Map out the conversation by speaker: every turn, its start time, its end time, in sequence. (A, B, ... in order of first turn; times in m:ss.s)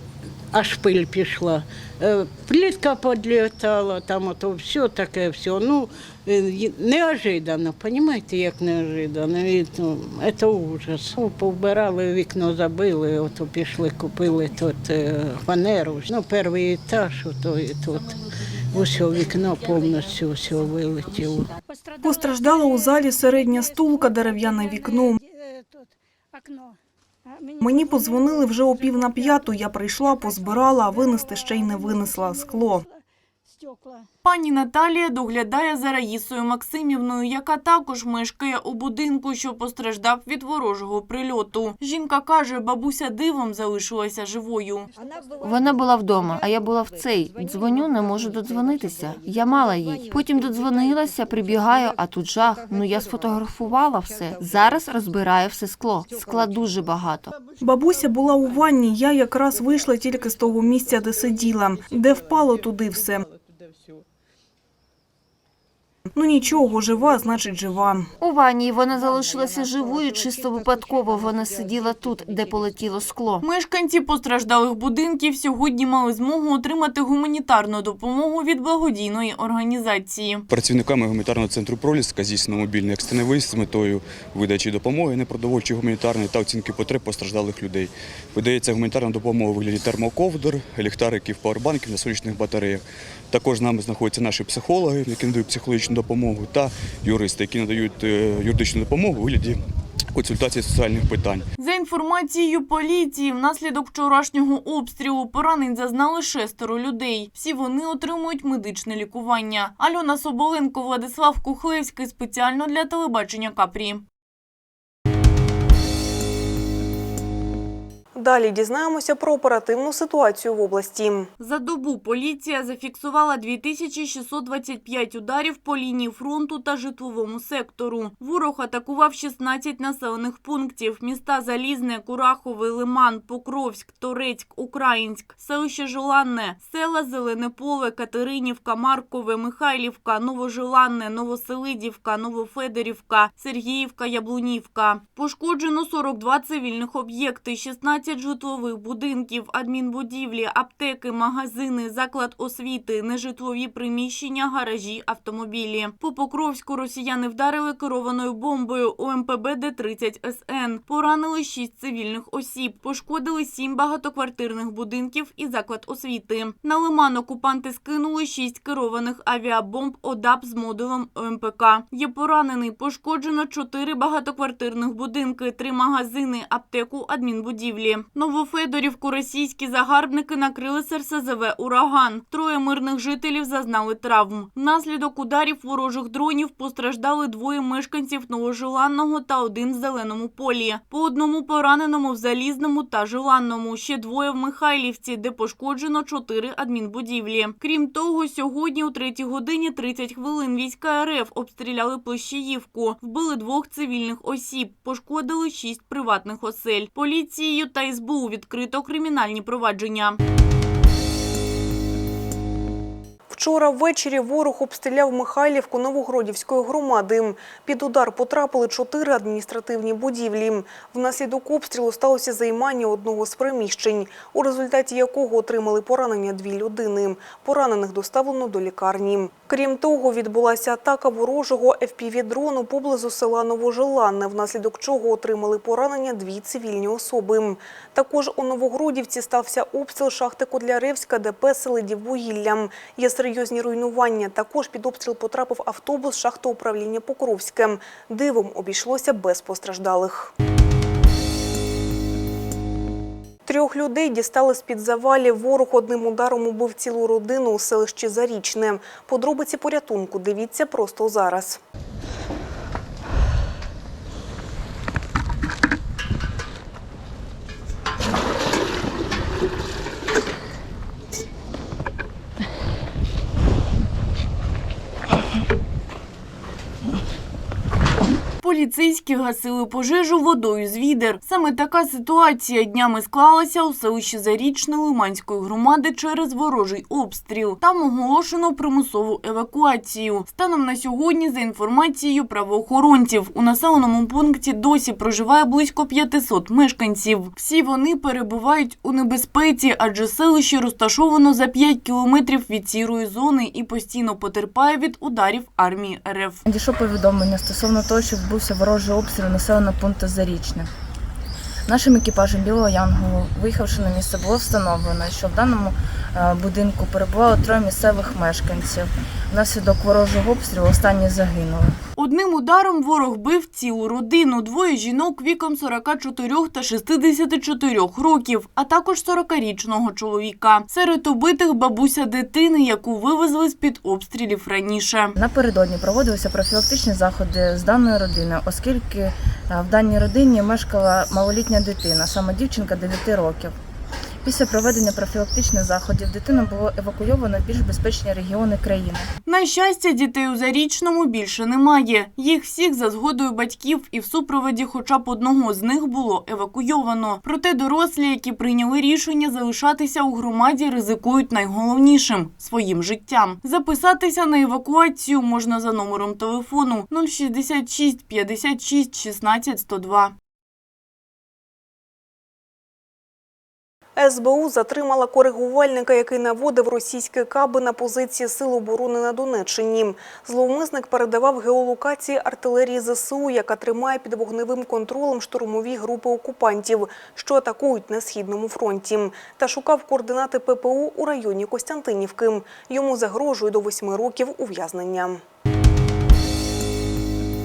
0:00.5-0:18.1 A
0:18.7-0:21.5 A
0:22.0-0:25.2 B
0:27.6-0:32.8 B
0:34.2-0:44.9 C
0:45.4-0:57.3 D
0:57.6-1:03.2 B
1:06.2-1:08.1 B
1:08.2-1:13.4 D
1:13.4-1:20.4 C
1:20.5-1:39.6 E
1:40.1-1:41.4 E
1:41.6-1:54.0 C
1:58.1-2:01.3 B
2:01.4-3:30.2 C
3:33.3-4:10.3 B
4:13.4-4:21.6 B
4:38.4-5:06.4 C
5:06.4-5:10.7 F
5:11.7-5:21.8 F
5:22.0-5:35.1 C
5:35.2-5:43.5 F
5:44.2-5:49.1 F
5:49.3-6:10.1 C
6:14.0-6:35.2 B